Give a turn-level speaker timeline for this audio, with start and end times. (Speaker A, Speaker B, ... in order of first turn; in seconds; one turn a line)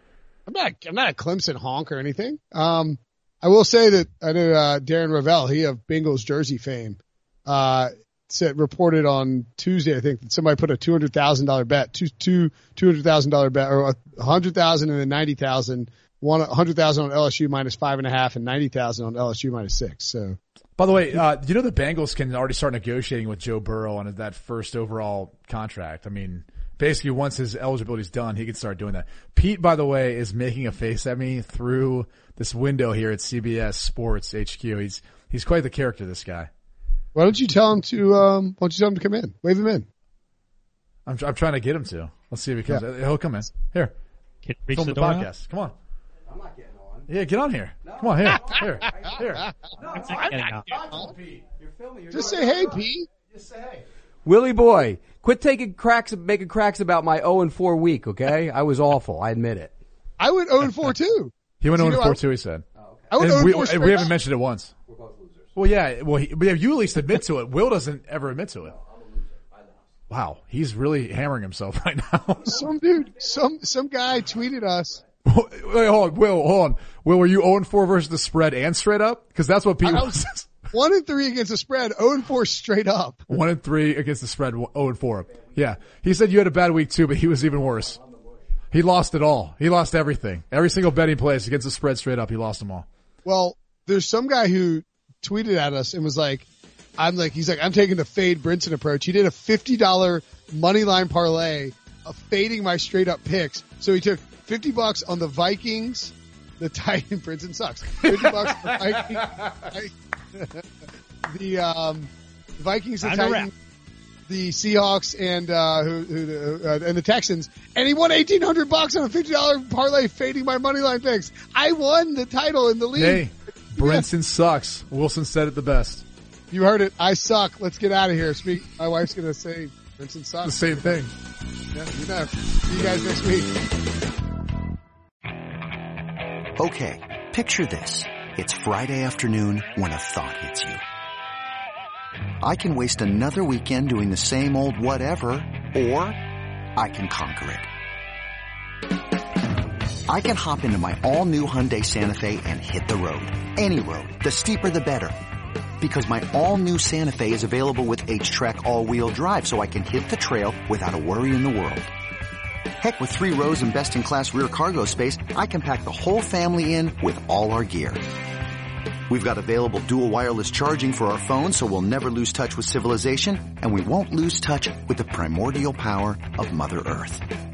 Speaker A: 0.5-20.4
Speaker B: 20.8-36.5
Speaker A: 37.1-39.9
Speaker B: 41.1-44.0
Speaker C: 44.4-45.3
Speaker B: 44.7-45.8
Speaker B: 47.1-49.5
Speaker C: 50.0-50.7
Speaker A: 50.7-51.1
Speaker A: 52.1-53.1
Speaker D: 54.2-59.8
Speaker A: 60.2-62.2
Speaker B: 61.6-64.7
Speaker A: 63.1-64.1
Speaker B: 65.5-68.8
Speaker B: 70.1-72.7
Speaker A: 72.5-75.0
Speaker B: 75.2-80.5
Speaker A: 79.8-80.2
Speaker A: 80.7-83.3
Speaker B: 83.3-88.0
Speaker B: 88.7-92.9
Speaker A: 93.2-96.5
Speaker A: 97.0-110.6
Speaker B: 108.0-109.2
Speaker A: 111.3-113.5
Speaker C: 113.0-113.5
Speaker A: 114.3-123.2
Speaker B: 123.0-126.0
Speaker A: 123.8-124.1
Speaker A: 126.5-131.0
Speaker B: 130.4-131.1
Speaker A: 131.7-133.7
Speaker E: 136.6-140.8
Speaker E: 142.4-146.2
Speaker E: 146.8-147.7
Speaker E: 150.1-155.2
Speaker E: 155.8-161.9
Speaker E: 162.8-168.2
Speaker E: 169.1-177.3